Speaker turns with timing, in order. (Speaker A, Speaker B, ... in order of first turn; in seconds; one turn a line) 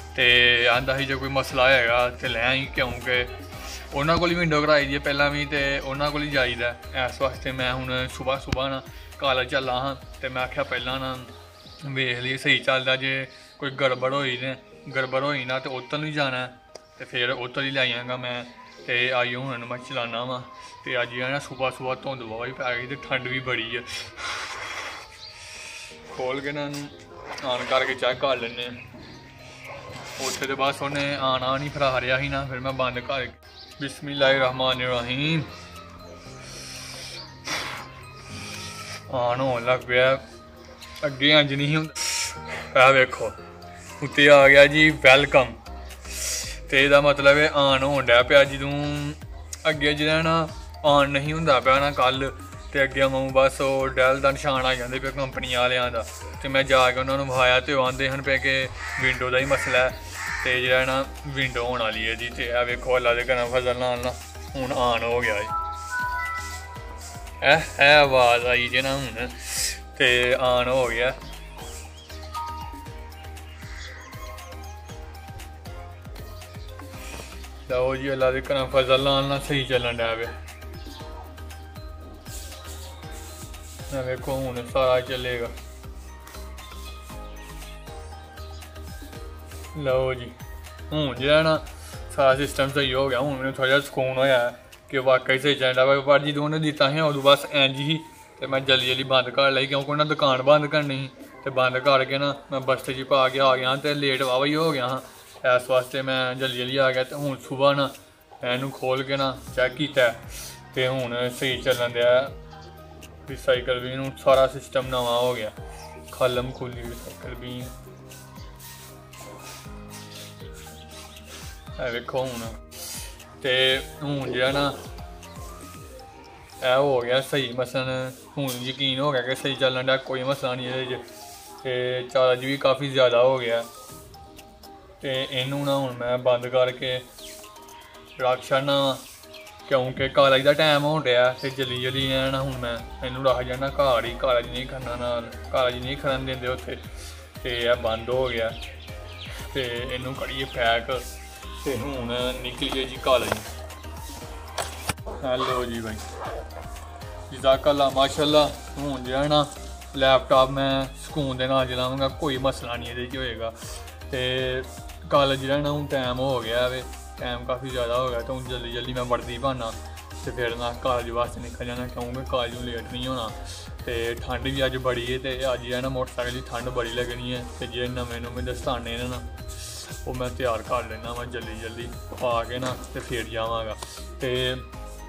Speaker A: 0.1-24.6
Speaker A: 26.1-28.8
Speaker A: 30.2-35.5
Speaker A: 39.1-40.2
Speaker A: 41.0-43.4
Speaker A: 44.0-65.5
Speaker A: 67.4-71.2
Speaker A: 77.7-80.4
Speaker A: 83.9-85.5
Speaker A: 89.7-90.4
Speaker A: 90.9-112.3
Speaker A: 113.3-115.6
Speaker A: 116.1-117.7
Speaker A: 121.8-122.7
Speaker A: 123.4-124.8
Speaker A: 126.6-131.1
Speaker A: 131.6-133.7
Speaker A: 135.0-137.1
Speaker A: 138.2-139.1
Speaker A: 139.7-148.6
Speaker A: 149.5-153.5
Speaker A: 155.2-156.1
Speaker A: 157.3-184.7